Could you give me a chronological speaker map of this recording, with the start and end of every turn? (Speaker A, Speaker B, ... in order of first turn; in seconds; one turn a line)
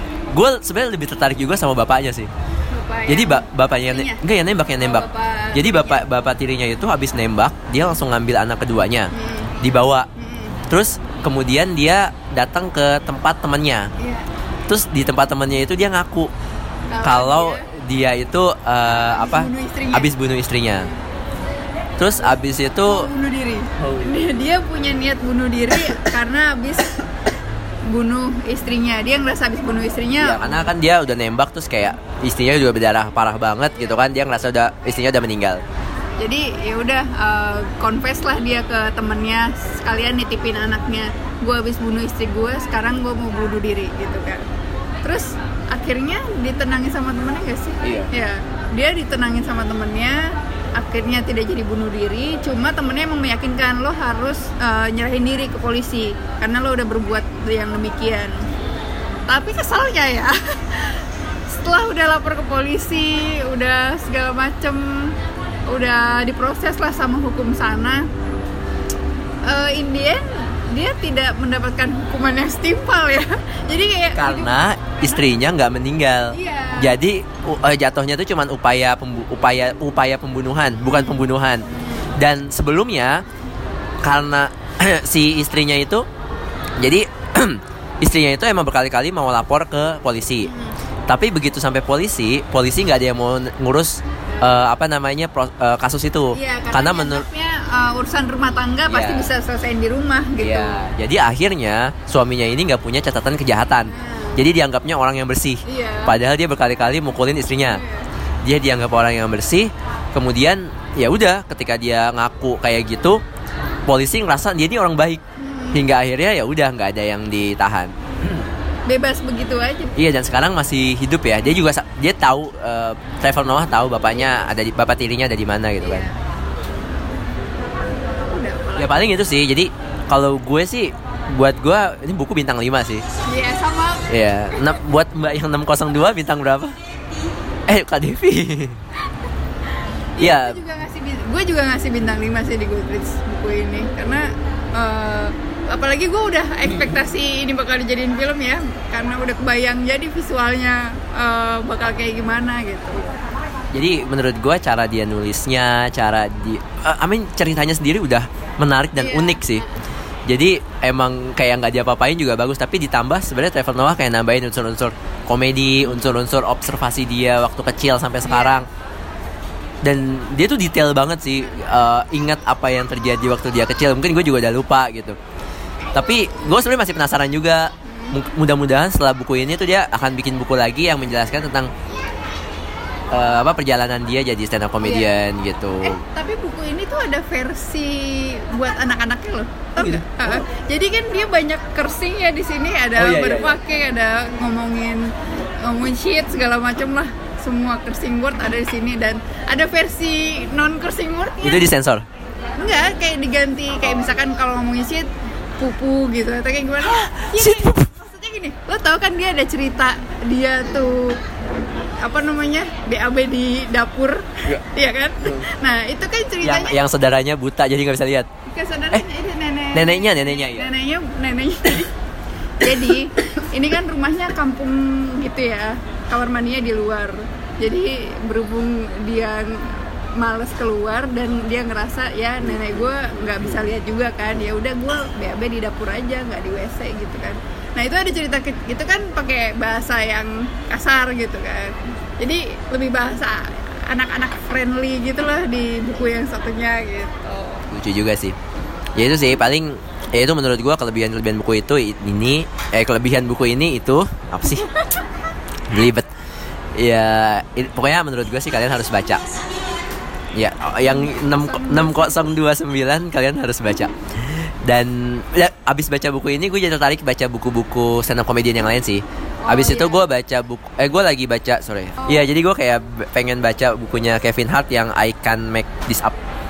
Speaker A: 0.3-2.3
Speaker B: 2.7-4.2
Speaker A: 3.1-10.1
Speaker B: 4.8-6.0
Speaker B: 9.1-10.6
Speaker A: 10.7-13.9
Speaker B: 14.0-14.3
Speaker A: 14.7-16.3
Speaker B: 16.9-17.7
Speaker A: 17.0-20.9
Speaker B: 18.9-20.1
Speaker A: 22.0-23.1
Speaker B: 22.9-27.0
Speaker A: 23.8-24.1
Speaker B: 27.9-30.6
Speaker A: 30.2-35.6
Speaker B: 36.2-44.4
Speaker B: 45.0-58.4
Speaker A: 47.8-48.1
Speaker B: 59.3-65.2
Speaker B: 65.7-68.1
Speaker B: 69.5-75.3
Speaker A: 74.2-81.7
Speaker B: 76.3-77.0
Speaker B: 80.8-82.1
Speaker A: 82.2-83.2
Speaker A: 84.0-86.0
Speaker A: 86.8-90.5
Speaker B: 90.4-90.7
Speaker A: 91.1-97.2
Speaker B: 96.3-100.8
Speaker A: 98.9-99.3
Speaker A: 100.4-107.8
Speaker B: 103.9-104.4
Speaker B: 105.7-106.2
Speaker B: 107.7-108.1
Speaker A: 108.4-113.2
Speaker A: 113.9-115.2
Speaker B: 115.4-115.8
Speaker A: 115.7-118.5
Speaker B: 118.9-120.0
Speaker A: 120.0-126.1
Speaker B: 124.1-124.4
Speaker B: 125.8-126.2
Speaker B: 128.3-129.0
Speaker A: 128.8-133.0
Speaker B: 133.3-134.6
Speaker A: 134.1-136.8
Speaker A: 137.7-138.8
Speaker B: 140.2-153.2
Speaker A: 140.2-140.6
Speaker A: 153.7-159.6
Speaker B: 159.0-159.7
Speaker A: 160.3-168.7
Speaker B: 168.2-168.6
Speaker A: 169.8-175.2
Speaker A: 175.9-181.7
Speaker B: 177.8-178.2
Speaker A: 183.1-186.0
Speaker B: 184.8-185.1
Speaker B: 185.8-195.1
Speaker A: 189.8-190.4
Speaker A: 193.0-193.6
Speaker B: 195.7-201.6
Speaker A: 201.4-202.1
Speaker B: 202.6-211.2
Speaker A: 206.9-207.9
Speaker B: 212.0-216.8
Speaker A: 216.4-218.3
Speaker B: 218.5-221.9
Speaker A: 219.7-220.7
Speaker B: 222.6-247.6
Speaker A: 232.4-233.7
Speaker A: 247.7-248.4
Speaker A: 249.0-254.7
Speaker A: 255.7-256.1
Speaker A: 256.8-259.4
Speaker A: 260.3-276.1
Speaker B: 260.8-262.3
Speaker B: 269.4-270.0